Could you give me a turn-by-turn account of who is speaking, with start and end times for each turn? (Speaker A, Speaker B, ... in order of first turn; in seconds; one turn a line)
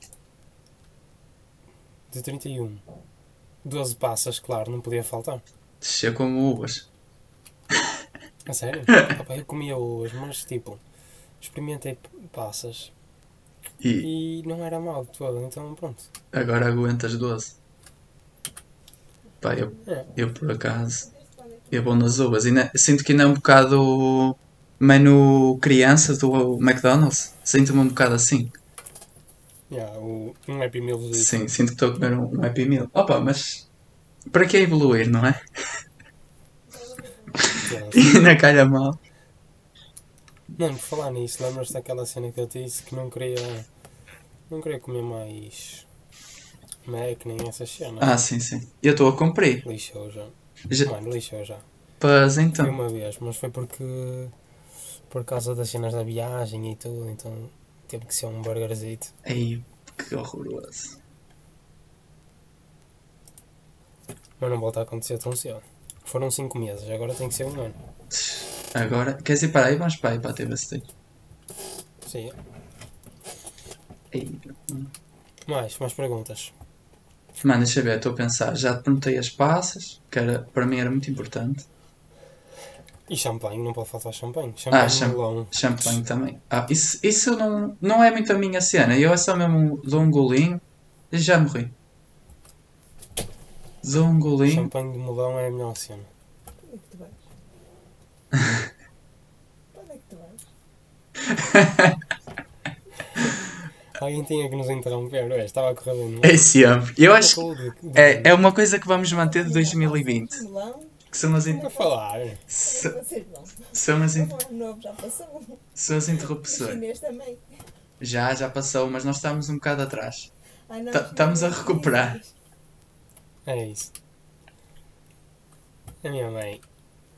Speaker A: 2.1-2.9
Speaker A: 3.6-5.5
Speaker B: 5.8-6.9
Speaker A: 8.5-10.8
Speaker A: 11.4-12.9
Speaker B: 13.8-14.1
Speaker A: 14.0-16.1
Speaker B: 16.3-17.6
Speaker B: 19.4-21.1
Speaker A: 19.9-20.1
Speaker B: 21.7-28.5
Speaker A: 29.7-31.5
Speaker B: 31.1-33.7
Speaker B: 34.3-35.4
Speaker B: 37.5-39.0
Speaker A: 37.5-38.2
Speaker A: 40.5-43.7
Speaker A: 44.5-45.9
Speaker A: 46.8-48.2
Speaker B: 48.0-49.6
Speaker A: 49.6-51.6
Speaker B: 52.0-52.8
Speaker A: 52.6-54.3
Speaker A: 55.1-59.1
Speaker B: 59.2-61.0
Speaker A: 64.4-67.8
Speaker B: 68.1-70.9
Speaker A: 72.0-72.4
Speaker B: 74.1-74.9
Speaker A: 75.5-76.5
Speaker B: 77.4-81.7
Speaker A: 83.1-86.0
Speaker B: 84.7-91.7
Speaker B: 93.8-94.7
Speaker A: 94.5-96.1
Speaker C: 96.7-97.2
Speaker C: 99.7-100.4
Speaker B: 101.3-102.0
Speaker A: 103.9-106.5
Speaker B: 106.2-110.5
Speaker A: 107.1-108.4
Speaker C: 110.4-111.0
Speaker B: 111.1-111.8
Speaker A: 111.5-112.5
Speaker B: 112.5-114.5
Speaker C: 113.0-113.6
Speaker C: 114.4-115.6
Speaker B: 115.8-116.9
Speaker C: 116.9-117.5
Speaker B: 118.0-120.3
Speaker B: 120.9-122.3
Speaker A: 123.5-123.9
Speaker A: 126.0-126.6